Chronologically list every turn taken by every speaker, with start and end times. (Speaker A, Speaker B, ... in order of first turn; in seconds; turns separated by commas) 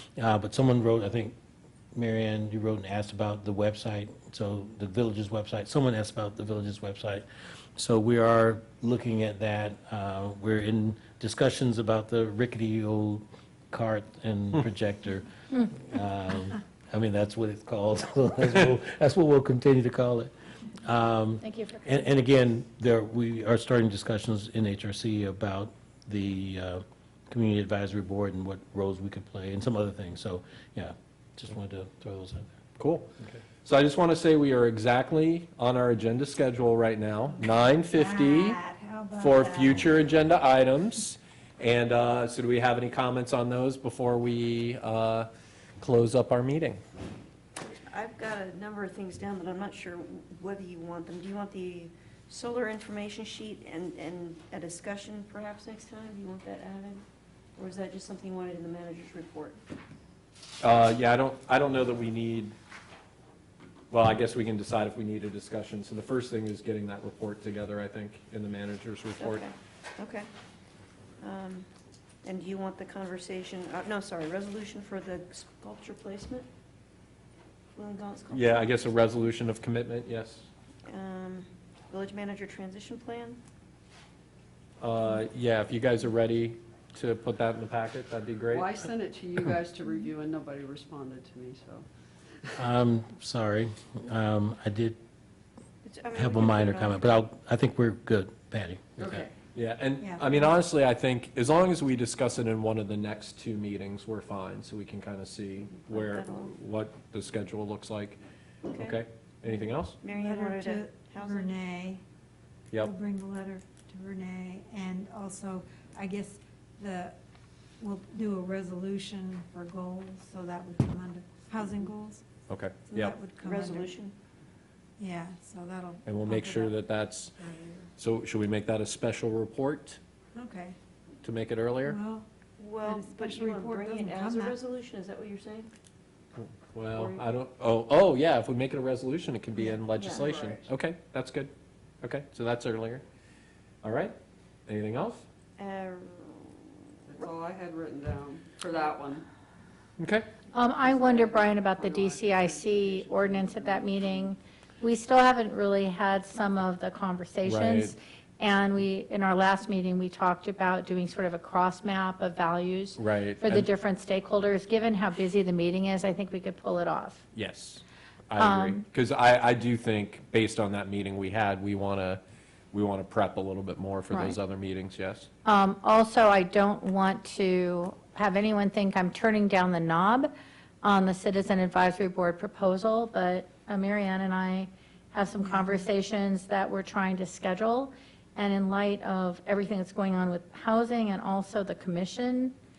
Speaker A: 0.2-1.4, Speaker A: 1.9-7.2, Speaker A: 7.8-20.3, Speaker A: 20.8-32.5, Speaker B: 21.4-22.0, Speaker C: 32.8-38.6, Speaker D: 37.5-40.0, Speaker C: 39.2-45.3, Speaker C: 45.8-46.8, Speaker E: 47.6-57.0, Speaker E: 57.6-59.6, Speaker C: 60.6-62.5, Speaker C: 63.9-69.4, Speaker E: 69.2-70.3, Speaker E: 71.2-71.7, Speaker E: 72.2-76.5, Speaker E: 77.8-78.8, Speaker C: 78.3-80.5, Speaker E: 80.9-83.4, Speaker C: 84.8-88.8, Speaker F: 88.5-91.9, Speaker A: 92.6-95.0, Speaker E: 95.8-97.2, Speaker A: 96.2-99.2, Speaker F: 99.0-99.3, Speaker C: 99.5-108.2, Speaker D: 100.0-100.5, Speaker E: 105.7-106.5, Speaker E: 108.7-109.0, Speaker C: 108.7-110.0, Speaker E: 110.0-111.5, Speaker D: 110.1-112.0, Speaker D: 112.7-117.2, Speaker D: 117.8-122.2, Speaker C: 122.5-123.2, Speaker D: 122.9-124.0, Speaker E: 123.4-124.2, Speaker D: 125.0-126.8, Speaker C: 126.0-127.3, Speaker D: 127.4-127.9, Speaker C: 128.0-130.0, Speaker D: 130.3-130.8, Speaker C: 131.2-132.0, Speaker D: 131.8-132.3, Speaker E: 132.6-135.7, Speaker D: 132.8-134.6, Speaker C: 136.4-141.5, Speaker E: 136.9-137.2, Speaker E: 140.0-140.3, Speaker F: 140.2-140.7, Speaker C: 142.0-143.0, Speaker C: 143.8-144.2, Speaker C: 144.7-145.2, Speaker E: 145.6-146.8, Speaker F: 147.1-149.3, Speaker C: 150.0-150.3, Speaker B: 150.5-167.2, Speaker F: 150.8-154.2, Speaker C: 157.4-157.9, Speaker C: 163.0-163.7, Speaker C: 167.3-172.2, Speaker B: 168.4-168.8, Speaker C: 172.7-175.3, Speaker B: 174.1-174.4, Speaker B: 175.4-180.3, Speaker B: 180.8-192.6, Speaker D: 185.4-185.8